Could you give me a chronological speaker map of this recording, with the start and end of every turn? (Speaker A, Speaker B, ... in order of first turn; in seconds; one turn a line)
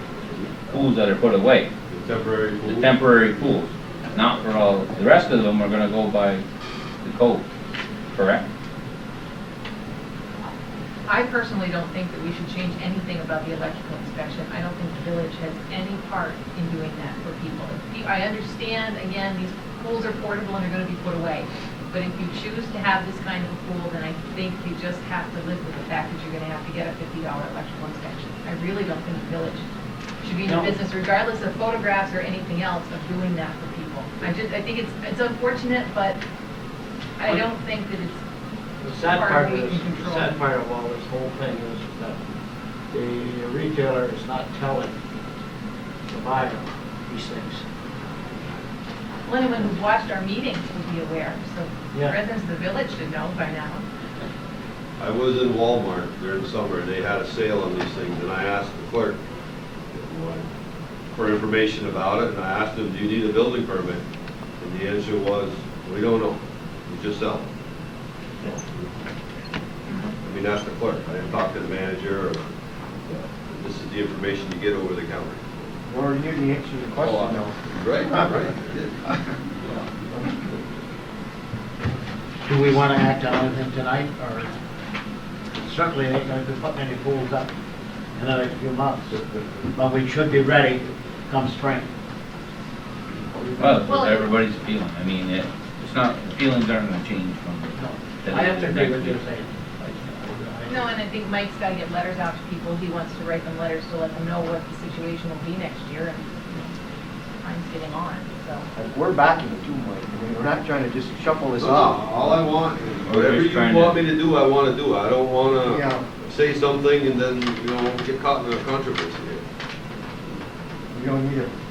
Speaker A: 0.6-1.7
Speaker B: 1.9-2.9
Speaker A: 2.7-6.4
Speaker A: 7.0-7.4
Speaker A: 8.1-8.4
Speaker C: 11.1-29.6
Speaker C: 30.2-36.2
Speaker D: 30.4-30.7
Speaker C: 37.2-38.2
Speaker D: 38.9-40.5
Speaker C: 39.0-40.4
Speaker D: 41.7-42.0
Speaker D: 42.9-45.0
Speaker D: 46.1-47.6
Speaker C: 49.3-53.8
Speaker B: 55.0-59.2
Speaker B: 59.9-60.4
Speaker B: 61.1-64.0
Speaker B: 64.6-67.5
Speaker B: 70.2-72.5
Speaker B: 73.1-75.6
Speaker E: 75.9-78.5
Speaker B: 77.0-79.0
Speaker E: 79.7-80.3
Speaker D: 82.5-84.5
Speaker D: 85.5-87.5
Speaker D: 88.1-89.2
Speaker B: 89.2-89.4
Speaker D: 89.7-91.9
Speaker D: 93.4-93.8
Speaker A: 93.6-99.2
Speaker C: 93.8-94.3
Speaker D: 97.8-100.8
Speaker C: 100.7-106.7
Speaker C: 107.4-108.7
Speaker E: 108.7-112.1
Speaker B: 111.6-119.4
Speaker A: 113.1-114.0
Speaker E: 115.6-116.1
Speaker E: 120.9-121.5